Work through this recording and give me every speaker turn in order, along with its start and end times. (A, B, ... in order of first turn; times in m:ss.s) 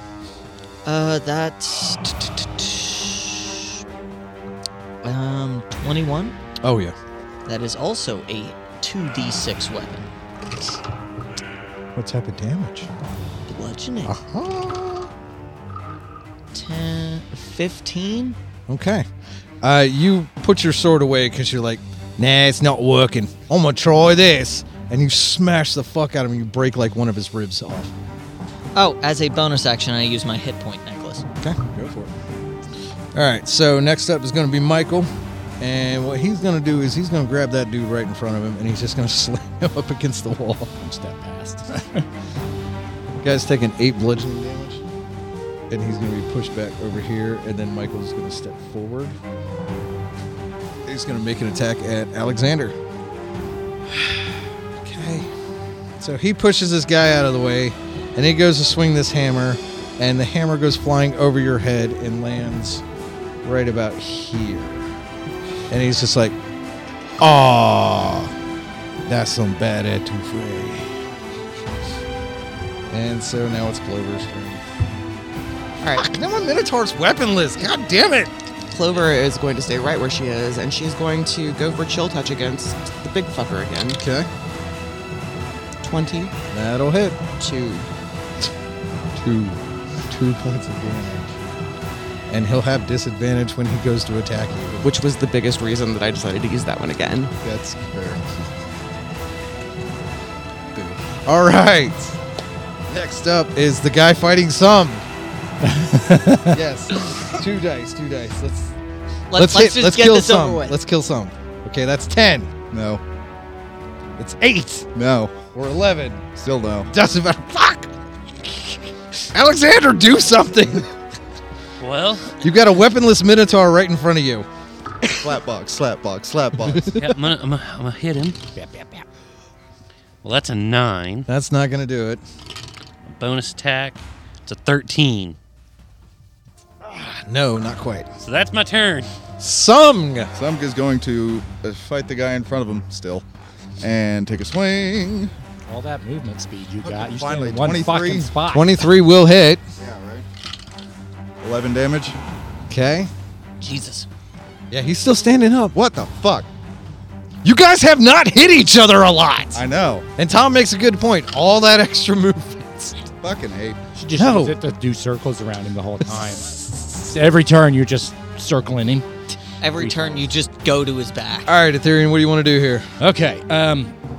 0:00.8-0:03.6 A
0:05.0-0:06.4 A
0:06.6-0:07.0 B
0:07.4-0:10.1 A
0:11.9-0:12.9 B
0:13.5-0:14.2 A
0:14.0-0:15.1 B
0:16.5-0:18.4 A
0:18.7-0:19.1 B
0:19.6-0:27.9 B
0:28.7-0:31.2 A
0:31.4-0:32.1 B
0:33.1-0:40.7 B
0:40.8-0:42.1 C
0:43.2-0:44.9 B
0:45.7-0:49.2 B
0:50.8-0:52.8 B
0:53.9-0:55.3 B
0:56.0-1:02.8 B
1:03.4-1:04.9 B
1:05.7-1:06.4 B
1:07.2-1:08.3 B
1:09.1-1:11.0 B
1:12.9-1:14.6 B
1:15.8-1:16.1 D
1:15.9-1:18.3 B
1:18.7-1:24.0 D
1:23.9-1:24.3 B
1:25.8-1:26.3 D
1:26.5-1:27.2 B
1:27.4-1:27.9 D
1:29.2-1:29.6 B
1:30.1-1:31.4 B
1:32.3-1:34.9 B
1:34.8-1:37.3 D
1:37.4-1:38.4 E
1:40.7-1:42.2 B
1:42.9-1:45.0 B
1:45.6-1:46.6 C
1:46.5-1:48.7 B
1:49.3-1:50.8 A
1:49.4-1:52.5 B
1:52.7-1:53.0 E
1:54.2-1:54.9 B
1:54.9-1:55.4 E
1:55.5-1:56.2 B
1:56.4-1:56.9 E
1:56.9-1:57.9 B
1:58.4-2:00.9 B
2:01.8-2:02.4 F
2:02.4-2:04.5 B
2:05.2-2:07.0 E
2:06.9-2:08.4 F
2:08.6-2:09.0 C
2:10.2-2:11.3 F
2:11.3-2:12.2 B
2:13.1-2:15.4 F
2:16.8-2:18.1 B
2:18.2-2:19.1 F
2:19.4-2:20.3 B
2:20.3-2:23.2 E
2:23.8-2:25.3 E
2:25.7-2:28.7 C
2:26.8-2:28.4 E
2:28.5-2:29.6 B
2:29.8-2:30.2 E
2:31.4-2:32.2 E
2:32.7-2:33.1 B
2:33.6-2:34.1 A
2:34.7-2:35.7 B
2:35.7-2:36.5 E
2:37.4-2:39.6 B
2:39.5-2:40.1 E
2:40.2-2:43.1 B
2:43.2-2:43.8 E
2:44.0-2:49.1 C
2:44.2-2:44.6 B
2:49.6-2:51.5 A
2:49.7-2:50.3 C
2:51.4-2:52.9 B
2:53.0-2:53.9 C